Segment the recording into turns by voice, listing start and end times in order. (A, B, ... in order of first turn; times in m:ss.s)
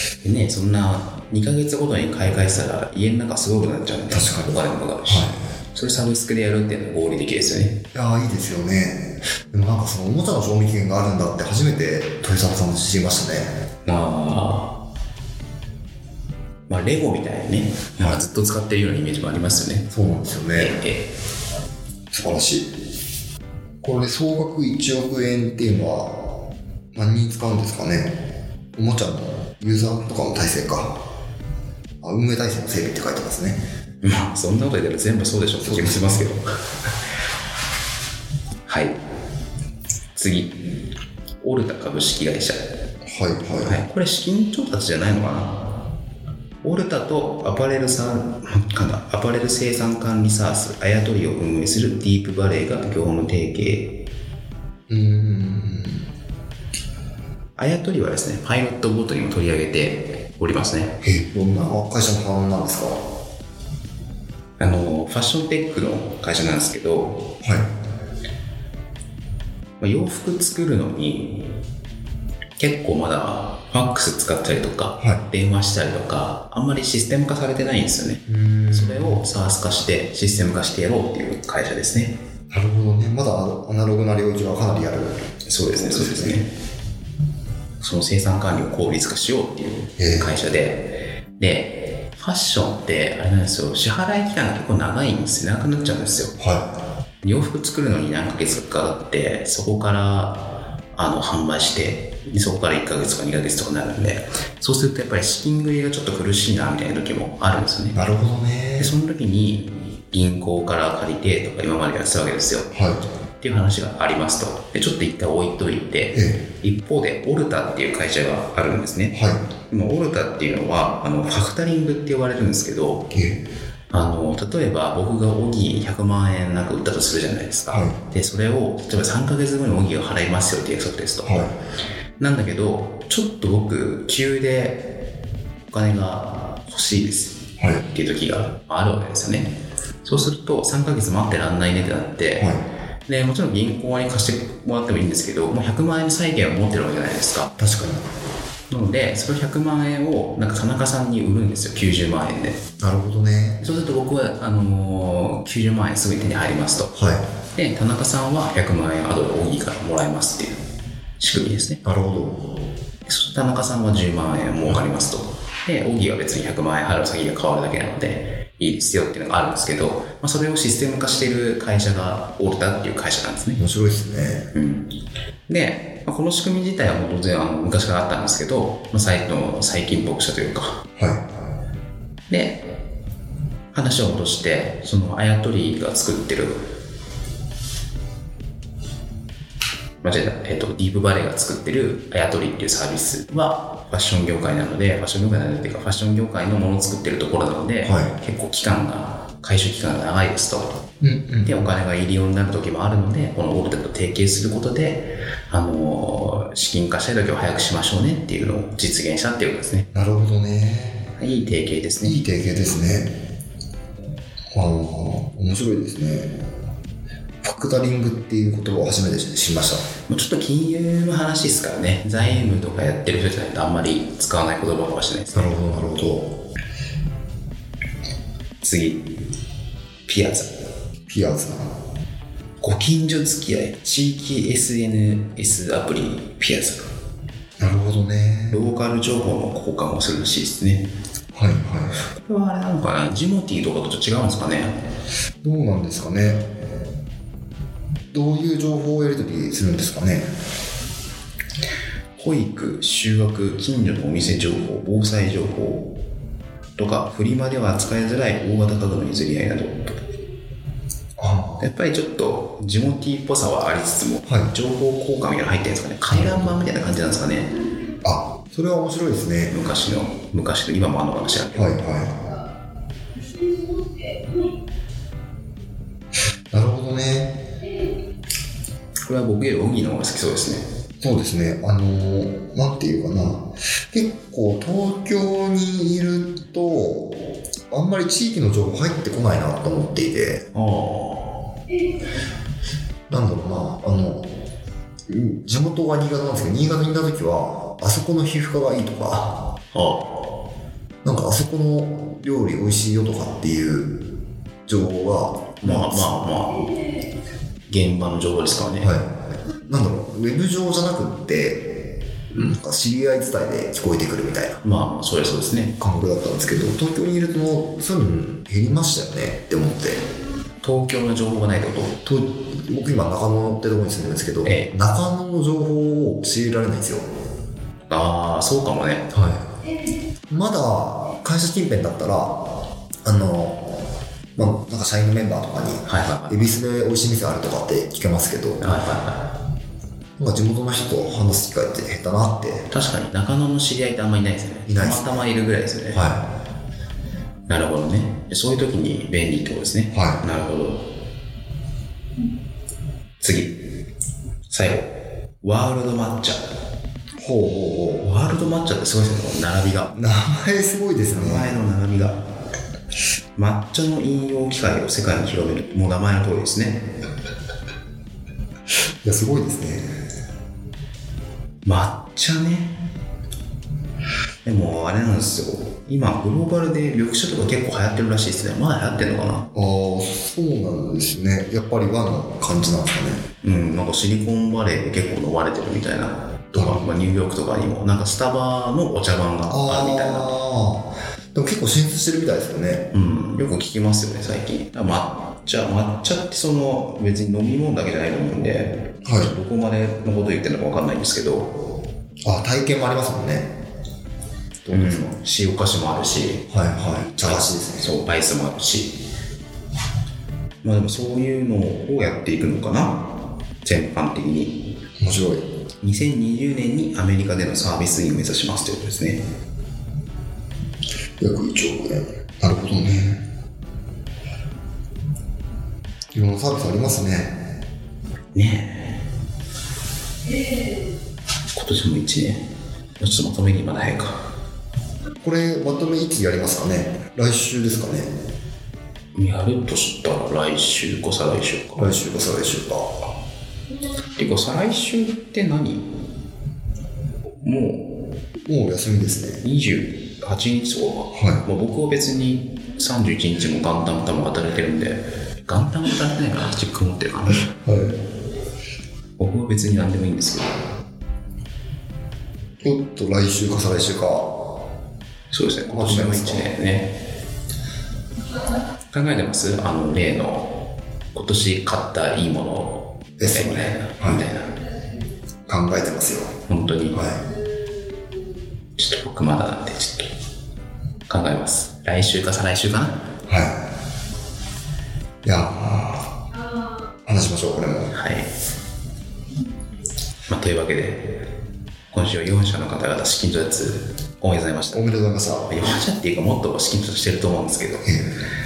0:00.2-0:07.8 A
0:04.1-0:05.4 B
0:07.9-0:13.5 B
0:13.9-0:14.8 A
0:16.7-0:19.9 A
0:19.9-0:20.8 B
0:20.5-0:21.1 A
0:22.1-0:22.7 B
0:23.8-0:26.1 B
0:27.0-0:28.2 B
0:28.8-0:31.0 B
0:32.0-0:33.6 B
0:34.0-0:36.6 A
0:35.6-0:36.3 B
0:38.7-0:39.0 A
0:40.2-0:40.6 A
0:41.4-0:42.6 A
0:43.1-0:43.8 B
0:43.6-0:45.7 A
0:46.6-0:54.0 A
0:54.9-0:56.1 B
0:57.6-1:01.0 A
1:01.0-1:03.0 B
1:04.6-1:07.3 A
1:07.4-1:07.7 B
1:09.8-1:11.6 A
1:12.6-1:22.2 A
1:18.3-1:19.2 B
1:22.5-1:26.4 B
1:25.5-1:26.5 A
1:27.8-1:36.4 A
1:30.0-1:30.4 B
1:36.4-1:36.7 B
1:37.2-1:48.0 A
1:48.0-1:48.9 B
1:48.8-1:52.7 A
1:52.7-1:53.0 B
1:53.4-1:59.2 A
1:56.1-1:56.4 B
1:59.1-1:59.4 B
1:59.7-2:03.1 A
2:03.1-2:03.4 B
2:03.9-2:11.4 A
2:07.7-2:07.9 B
2:11.2-2:11.5 B
2:12.2-2:15.0 A
2:15.7-2:22.6 A
2:23.1-2:27.5 A
2:27.6-2:28.0 B
2:28.7-2:32.6 A
2:32.8-2:33.6 B
2:33.6-2:40.6 A
2:37.0-2:37.2 B
2:41.2-2:41.8 A
2:41.8-2:42.4 B
2:43.1-2:53.6 A
2:53.6-2:54.5 B
2:54.5-2:54.9 A
2:55.5-3:00.8 A
3:01.0-3:01.2 B
3:02.3-3:02.6 A
3:03.7-3:06.7 A
3:10.0-3:20.8 A
3:17.8-3:18.1 B
3:21.0-3:21.5 B
3:21.5-3:29.9 A
3:29.9-3:31.0 B
3:31.2-3:32.2 A
3:32.0-3:33.1 B
3:34.5-3:36.3 B
3:37.4-3:39.8 B
3:40.1-3:45.6 A
3:45.3-3:46.3 B
3:48.6-3:49.1 A
3:50.1-3:50.5 A
3:51.1-3:51.7 B
3:52.6-3:56.9 A
3:57.6-3:58.7 B
3:58.5-4:00.9 A
4:01.3-4:02.0 B
4:02.1-4:04.8 A
4:05.4-4:06.5 B
4:08.1-4:10.3 B
4:12.2-4:16.0 A
4:16.8-4:19.9 A
4:21.2-4:21.6 B
4:21.6-4:27.5 A
4:28.0-4:29.6 B
4:29.5-4:31.8 A
4:31.5-4:32.2 B
4:36.5-4:37.4 B
4:39.1-4:40.6 A
4:41.0-4:47.2 B
4:47.7-4:50.4 B
4:50.5-4:51.4 A
4:53.1-4:54.3 B
4:55.1-4:59.3 B
4:59.7-5:00.2 A
5:01.0-5:03.9 B
5:04.7-5:06.2 B
5:05.6-5:06.7 A
5:07.7-5:08.9 A
5:09.7-5:11.6 B
5:12.3-5:14.6 B
5:14.6-5:15.8 A
5:15.8-5:20.0 B
5:20.6-5:22.0 A
5:22.0-5:27.0 B
5:24.4-5:24.7 A
5:27.9-5:29.1 A
5:29.1-5:29.4 B
5:30.3-5:32.4 B
5:33.0-5:33.6 B
5:34.4-5:38.6 B
5:35.9-5:36.5 A
5:38.6-5:39.3 A
5:40.2-5:42.7 B
5:42.7-5:46.1 A
5:44.7-5:45.1 B
5:45.9-5:46.2 B
5:47.5-5:50.9 A
5:49.9-5:50.2 B
5:53.2-5:53.6 A
5:54.5-5:54.9 A
5:55.4-5:56.4 A
5:57.2-5:58.1 B
5:58.0-5:59.9 A
6:00.0-6:01.6 B
6:01.2-6:02.2 A
6:03.4-6:06.9 A
6:09.0-6:09.9 B
6:11.6-6:12.8 A
6:14.4-6:19.5 A
6:19.6-6:23.2 B
6:23.4-6:30.3 A
6:26.6-6:26.8 B
6:29.5-6:32.9 B
6:32.9-6:41.6 A
6:39.0-6:39.3 B
6:42.2-6:43.5 B
6:44.6-6:45.1 B
6:44.7-6:46.5 A
6:46.5-6:47.9 B
6:47.2-6:48.9 A
6:50.6-6:54.8 A
6:55.0-6:55.4 B
6:55.8-6:59.2 A
7:01.2-7:03.2 B
7:06.2-7:07.3 B
7:08.4-7:09.0 A
7:11.6-7:12.4 A
7:13.0-7:14.2 A
7:15.2-7:18.1 B
7:19.2-7:22.0 A
7:21.8-7:22.9 B
7:24.2-7:25.9 A
7:27.4-7:28.0 A
7:28.5-7:29.4 B
7:29.4-7:37.5 A
7:31.1-7:31.4 B
7:37.6-7:38.0 B
7:39.2-7:40.6 A
7:42.6-7:44.3 B
7:45.3-7:47.0 A
7:45.7-7:46.5 B
7:48.9-7:54.6 A
7:53.2-7:54.2 B
7:55.5-7:56.3 B
7:56.5-7:57.2 A
7:56.9-7:57.2 B
7:58.8-8:00.1 A
8:01.1-8:03.0 A
8:03.3-8:03.6 B
8:05.2-8:06.2 B
8:07.1-8:07.9 B
8:07.9-8:08.3 A
8:10.3-8:11.2 A
8:11.9-8:17.9 A
8:14.7-8:15.5 B